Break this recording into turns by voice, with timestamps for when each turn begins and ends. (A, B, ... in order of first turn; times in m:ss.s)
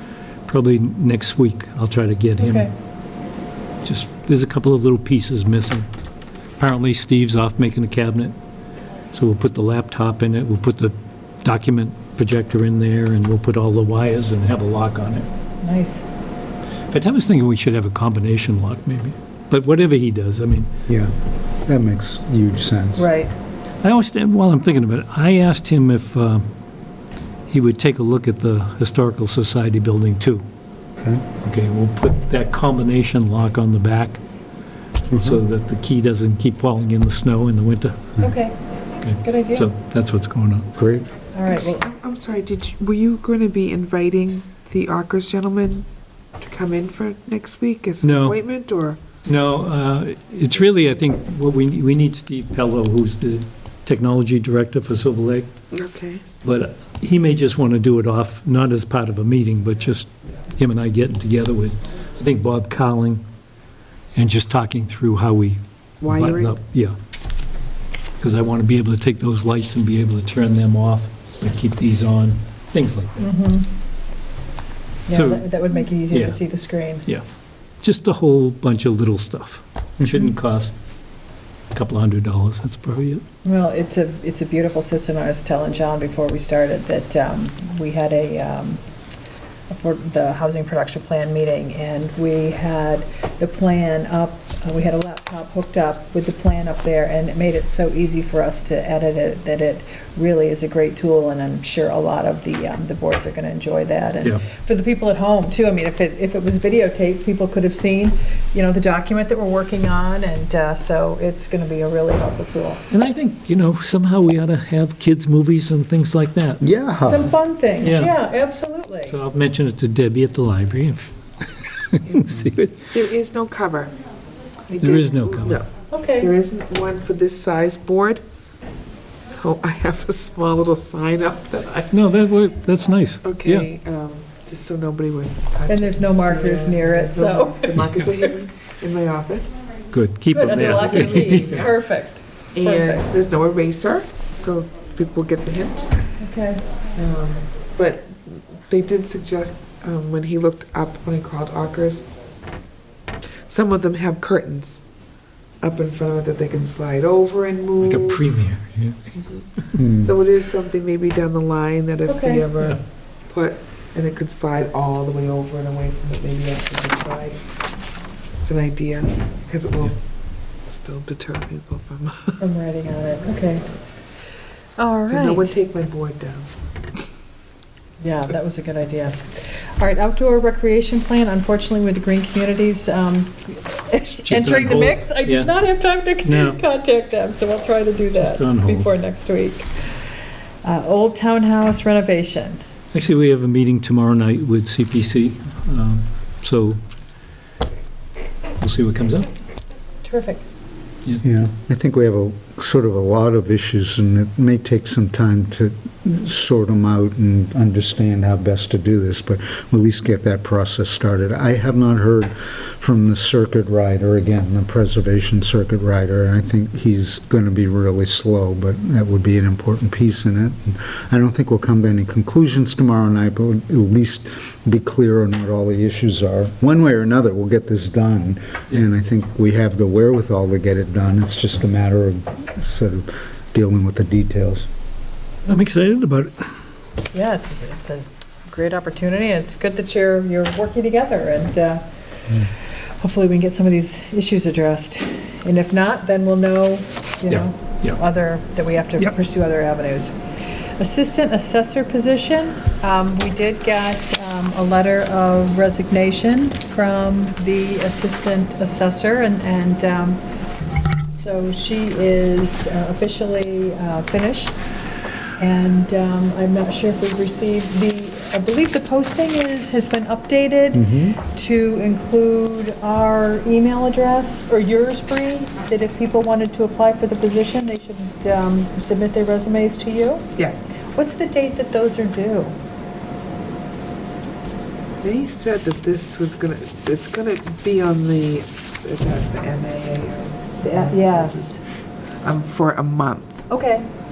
0:00.4-0:02.7 A
0:02.4-0:02.7 B
0:03.8-0:05.9 A
0:06.6-0:08.3 A
0:09.1-0:15.3 A
0:15.6-0:16.0 B
0:16.9-0:20.7 A
0:21.7-0:23.0 C
0:23.0-0:23.3 B
0:23.8-0:26.5 A
0:27.5-0:30.4 A
0:31.0-0:31.2 C
0:31.4-0:34.2 A
0:35.1-0:35.4 C
0:35.1-0:38.2 A
0:38.2-0:38.6 B
0:39.0-0:40.7 A
0:39.2-0:39.7 B
0:40.7-0:41.1 C
0:41.3-0:41.8 B
0:41.5-0:45.9 D
0:46.4-0:49.0 D
0:48.0-0:48.4 A
0:49.2-0:55.5 A
0:55.7-0:56.2 D
0:56.4-1:03.2 A
1:04.1-1:07.0 A
1:06.0-1:06.6 D
1:08.2-1:13.3 A
1:13.2-1:13.7 B
1:15.1-1:17.0 B
1:15.1-1:15.5 A
1:16.1-1:16.4 A
1:17.8-1:20.8 A
1:20.0-1:20.3 C
1:21.7-1:23.2 A
1:23.4-1:28.8 B
1:29.7-1:52.8 B
1:52.9-1:56.6 A
1:56.6-1:57.3 C
1:57.0-1:59.2 B
1:57.8-1:58.1 A
1:59.1-2:02.9 A
2:02.0-2:03.9 D
2:04.7-2:08.2 D
2:04.8-2:05.6 A
2:05.9-2:06.3 B
2:09.2-2:11.9 D
2:11.8-2:13.7 A
2:13.2-2:19.5 D
2:15.7-2:18.3 B
2:19.9-2:21.7 A
2:20.3-2:23.0 B
2:20.8-2:21.7 D
2:22.5-2:25.9 D
2:26.2-2:26.6 B
2:26.9-2:32.1 D
2:33.5-2:34.8 D
2:35.6-2:38.3 D
2:37.8-2:39.2 A
2:39.8-2:40.1 C
2:40.0-2:47.4 D
2:42.1-2:42.5 B
2:48.4-2:50.1 D
2:50.6-2:52.4 D
2:52.4-2:53.7 B
2:54.8-2:55.5 B
2:55.0-2:56.5 D
2:58.0-3:09.7 B
3:04.2-3:05.5 A
3:06.2-3:06.6 A
3:08.1-3:08.9 A
3:10.6-3:12.6 B
3:12.9-3:16.8 A
3:18.6-3:19.3 A
3:20.0-3:20.4 B
3:21.2-3:54.7 C
3:55.4-3:56.5 A
3:57.1-4:01.8 B
4:03.0-4:10.2 B
4:07.3-4:08.0 A
4:10.8-4:20.2 B
4:21.1-4:24.6 B
4:25.4-4:40.2 B
4:30.7-4:31.2 C
4:40.4-4:40.8 D
4:40.9-4:42.6 B
4:45.0-4:53.5 D
4:50.6-4:51.6 B
4:53.5-4:53.9 B